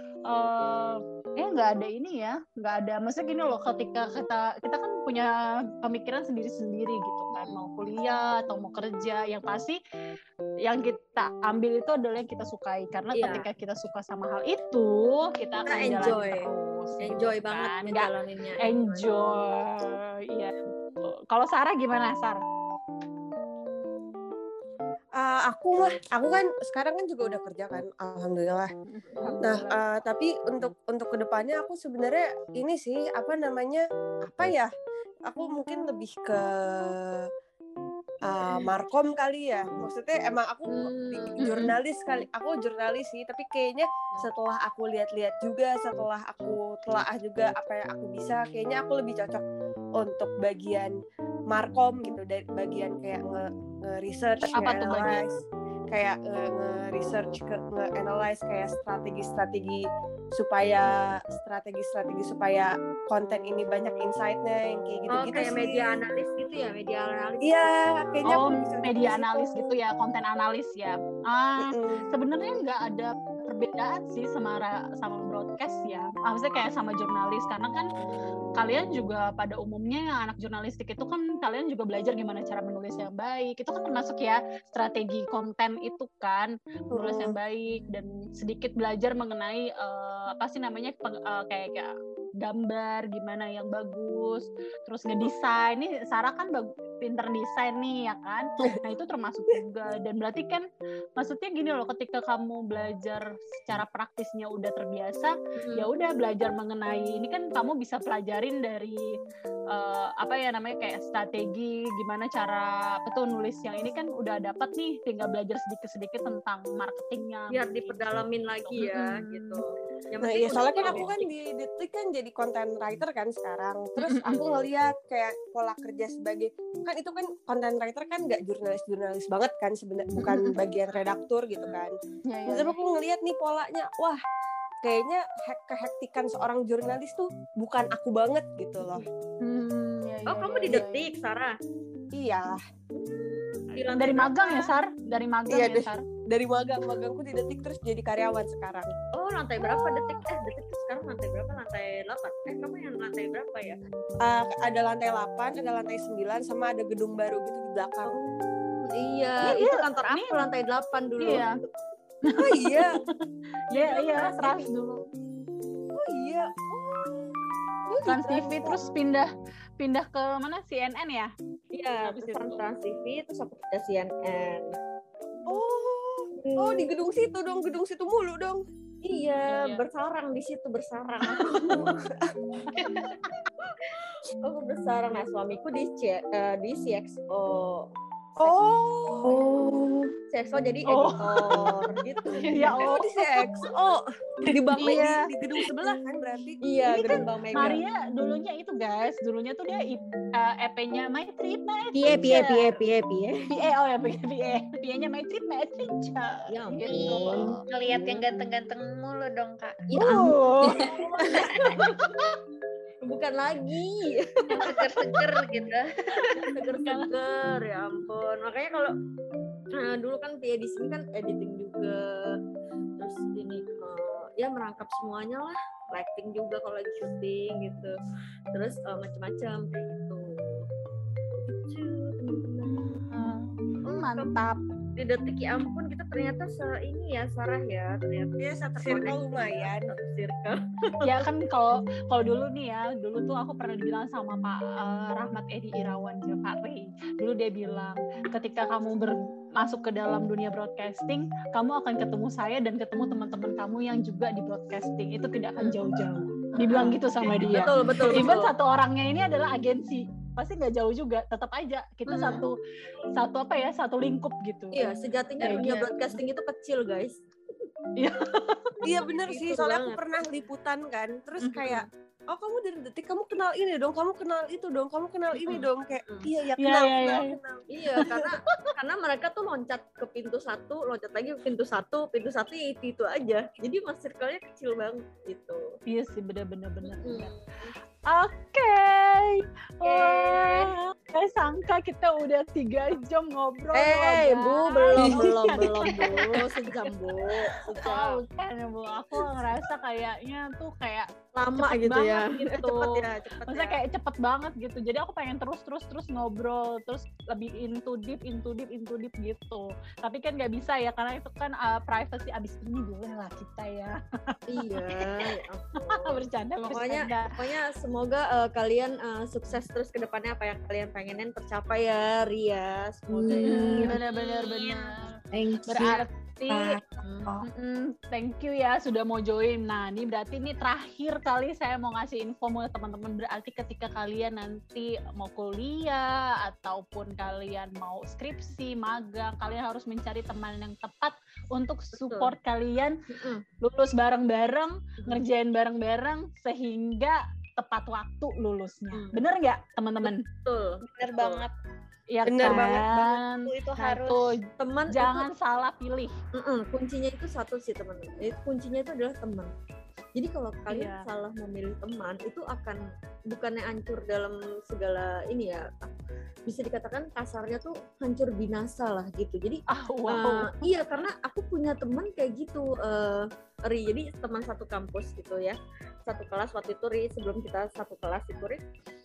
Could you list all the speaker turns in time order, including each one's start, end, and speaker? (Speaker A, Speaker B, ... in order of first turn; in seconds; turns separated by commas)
Speaker A: 0.3-9.8, Speaker B: 7.3-7.6, Speaker A: 10.6-18.1, Speaker B: 13.1-13.5, Speaker B: 15.7-16.5, Speaker B: 17.0-19.4, Speaker A: 18.6-22.4, Speaker C: 25.1-28.7, Speaker A: 28.9-29.8, Speaker C: 29.4-34.7, Speaker C: 35.3-37.3, Speaker C: 38.2-49.4, Speaker B: 40.7-41.5, Speaker A: 41.4-41.7, Speaker C: 50.0-50.9, Speaker C: 51.5-55.3, Speaker A: 54.4-55.2, Speaker C: 55.9-65.8, Speaker B: 57.0-57.3, Speaker B: 65.1-67.7, Speaker C: 67.4-69.8, Speaker A: 68.3-77.9, Speaker C: 71.6-72.1, Speaker A: 78.6-100.6, Speaker C: 86.9-87.3, Speaker A: 101.2-109.0, Speaker B: 105.6-105.9, Speaker A: 109.7-119.6, Speaker B: 117.5-121.3, Speaker C: 120.2-131.9, Speaker A: 124.0-124.4, Speaker A: 130.2-130.5, Speaker A: 132.3-132.8, Speaker C: 132.5-134.2, Speaker C: 134.8-139.0, Speaker A: 139.4-141.0, Speaker B: 140.3-141.5, Speaker C: 142.1-142.6, Speaker B: 142.9-144.7, Speaker A: 143.9-146.0, Speaker C: 145.5-148.9, Speaker B: 149.1-153.8, Speaker C: 154.2-158.1, Speaker B: 158.1-161.5, Speaker A: 159.4-160.4, Speaker A: 161.2-161.6, Speaker A: 162.3-162.8, Speaker C: 162.3-163.0, Speaker A: 163.7-165.0, Speaker C: 163.7-164.6, Speaker C: 165.9-167.3, Speaker C: 167.9-168.9, Speaker A: 168.1-171.3, Speaker B: 171.7-174.7, Speaker A: 172.0-172.6, Speaker C: 175.5-178.6, Speaker B: 176.3-176.9, Speaker B: 179.0-181.9, Speaker A: 179.5-179.8, Speaker D: 182.8-183.1, Speaker B: 184.4-187.9, Speaker C: 188.4-189.3, Speaker E: 189.2-190.1, Speaker B: 190.3-192.9, Speaker A: 190.9-191.7, Speaker A: 192.3-193.0, Speaker C: 192.6-196.6, Speaker A: 194.8-195.1, Speaker B: 196.6-197.8, Speaker A: 196.8-202.7, Speaker B: 202.0-203.3, Speaker A: 203.5-207.6, Speaker B: 206.5-208.3, Speaker D: 206.9-209.8, Speaker A: 209.9-210.9, Speaker B: 210.0-211.8, Speaker D: 211.3-211.7, Speaker A: 211.8-212.3, Speaker B: 213.0-215.1, Speaker A: 214.5-214.8, Speaker D: 214.6-215.9, Speaker A: 216.2-217.1, Speaker B: 216.4-218.9, Speaker B: 219.7-222.4, Speaker B: 223.0-228.0, Speaker B: 228.5-230.7, Speaker B: 231.4-233.1, Speaker A: 232.7-234.6, Speaker B: 233.8-234.4, Speaker B: 235.0-241.0, Speaker C: 238.4-239.9, Speaker A: 241.0-262.6, Speaker B: 256.6-258.5, Speaker B: 262.1-262.4, Speaker A: 263.1-264.9, Speaker B: 264.7-267.2, Speaker A: 265.4-265.9, Speaker A: 268.0-268.7, Speaker C: 268.8-277.6, Speaker B: 269.2-270.0, Speaker A: 271.4-271.8, Speaker B: 275.5-276.3, Speaker A: 276.6-277.4, Speaker B: 277.7-285.7, Speaker A: 278.0-278.7, Speaker A: 285.9-287.3, Speaker B: 286.9-287.7, Speaker A: 288.1-296.4, Speaker B: 289.8-290.7, Speaker B: 293.7-298.2, Speaker E: 295.0-295.5, Speaker A: 297.7-317.3, Speaker B: 301.3-303.8, Speaker B: 314.5-323.9, Speaker E: 323.1-324.0, Speaker A: 323.3-326.8, Speaker D: 323.9-325.1, Speaker E: 325.3-327.5, Speaker B: 327.0-327.3, Speaker A: 327.4-343.0, Speaker B: 341.9-342.3, Speaker B: 343.1-343.4, Speaker A: 343.6-350.2, Speaker B: 348.9-349.2, Speaker B: 350.0-351.4, Speaker D: 350.8-351.5, Speaker A: 352.1-356.1, Speaker C: 352.2-353.1, Speaker D: 353.4-354.4, Speaker B: 354.6-355.3, Speaker B: 356.3-359.5, Speaker B: 360.1-365.9, Speaker A: 360.7-361.0, Speaker B: 366.4-378.6, Speaker A: 369.7-370.7